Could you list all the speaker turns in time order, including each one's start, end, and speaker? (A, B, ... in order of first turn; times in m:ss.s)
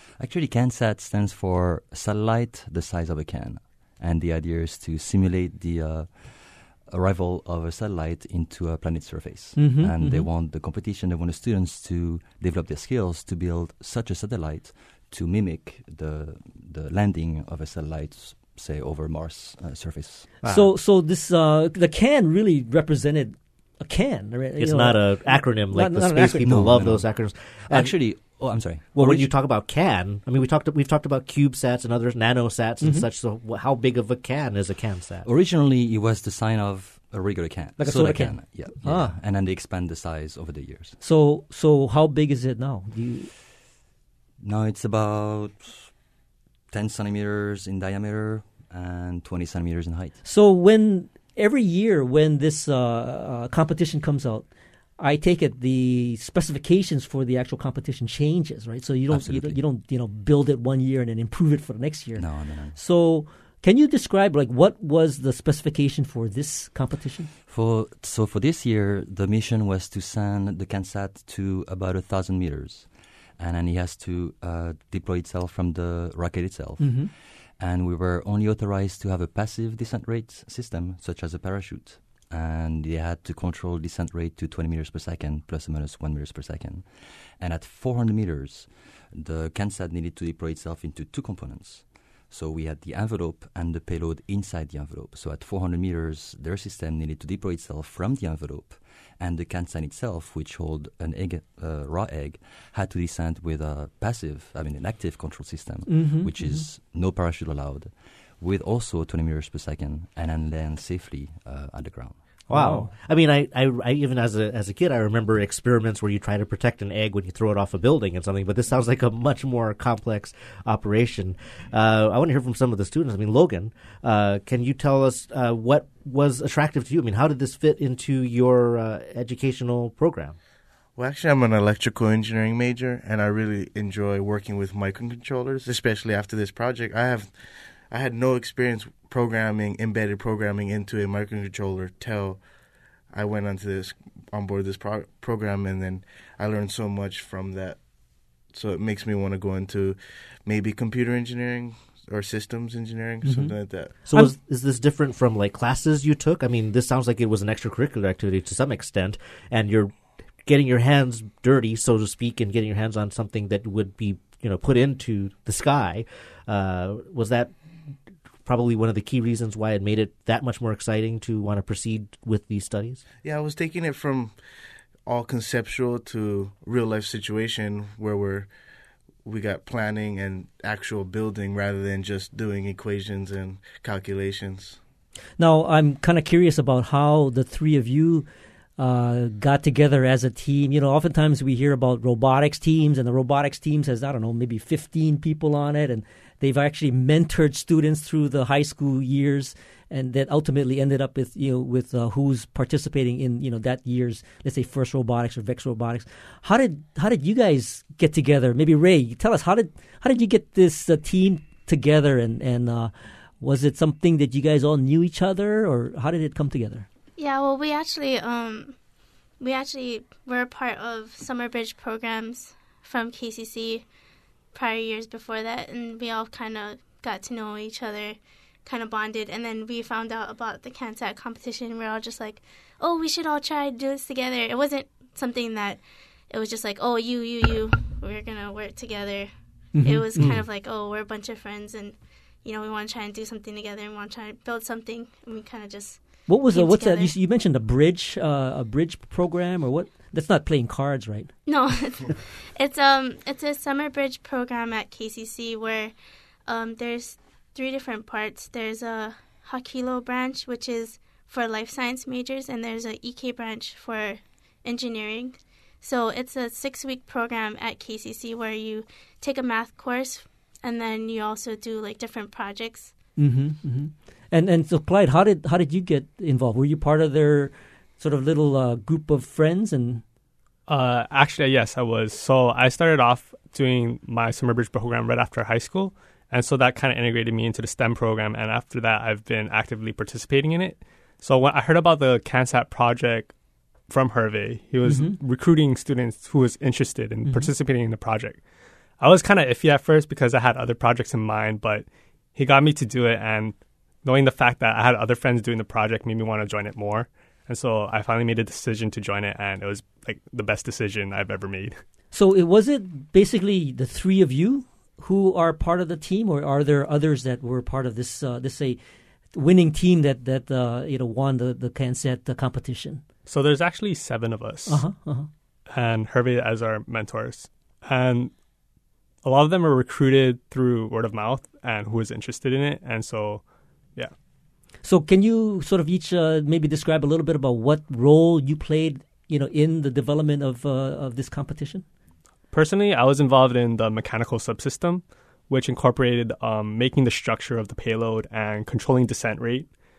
0:00.2-0:20.4 A
0:09.6-0:10.3 B
0:20.4-0:20.7 C
0:20.5-0:26.5 B
0:24.6-0:28.2 C
0:26.4-0:29.4 A
0:28.9-0:35.3 C
0:32.8-0:33.1 B
0:35.2-0:41.0 A
0:37.8-0:39.2 B
0:41.0-0:43.3 B
0:44.4-0:45.9 A
0:46.7-0:50.2 A
0:50.2-0:54.5 B
0:55.0-1:07.3 B
0:59.1-0:59.6 A
1:02.2-1:02.8 A
1:07.5-1:52.2 A
1:16.8-1:17.1 B
1:45.9-1:46.7 B
1:52.5-2:10.4 C
1:52.5-1:52.9 B
2:11.0-2:17.4 D
2:17.9-2:22.4 D
2:23.1-2:27.9 D
2:28.4-2:33.9 D
2:33.2-2:34.3 B
2:34.1-2:47.5 C
2:48.4-2:53.0 C
2:53.2-2:54.4 D
2:55.1-2:58.5 D
2:59.2-3:04.8 D
3:05.4-3:08.3 B
3:08.8-3:36.9 B
3:37.2-3:38.8 E
3:39.4-3:43.9 E
3:44.5-4:07.1 E
3:59.7-4:00.4 B
4:06.3-4:11.3 B
4:11.5-4:16.0 E
4:16.5-4:32.9 E
4:33.2-4:40.0 B
4:40.7-4:53.4 F
4:53.9-5:11.8 F
4:54.8-4:55.2 B
4:57.2-4:57.5 B
5:12.1-5:18.8 B
5:19.3-5:23.0 B
5:23.3-5:25.0 F
5:24.7-5:25.3 B
5:25.7-5:28.3 F
5:29.2-5:34.1 F
5:34.8-5:41.8 B
5:42.5-5:49.7 F